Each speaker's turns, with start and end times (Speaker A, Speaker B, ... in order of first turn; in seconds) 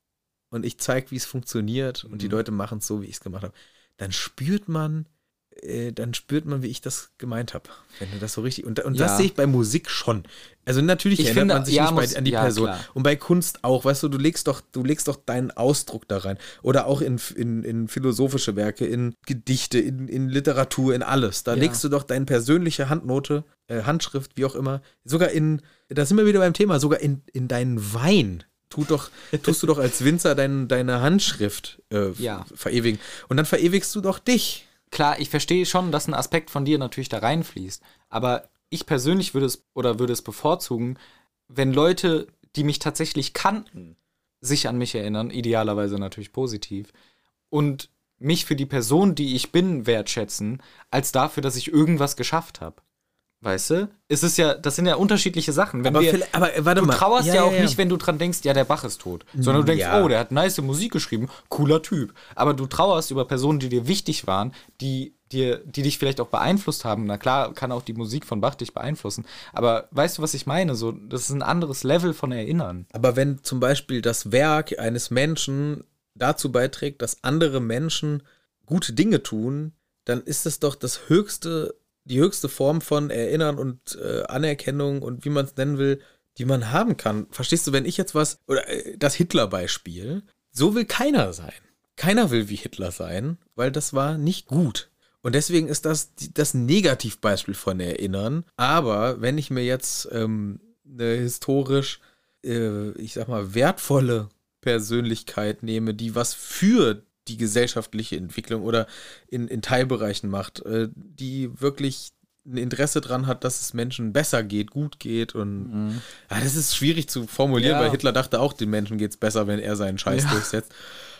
Speaker A: 0.5-34.7, 55.9-57.8, 59.4-60.1, 72.9-121.0
Speaker B: 2.0-2.4, 8.9-9.3, 11.2-12.9, 21.5-21.8, 32.2-32.5, 34.9-41.0, 41.5-46.9, 47.5-52.8, 53.4-56.2, 56.8-72.8, 115.6-116.0, 117.6-118.0, 120.1-120.5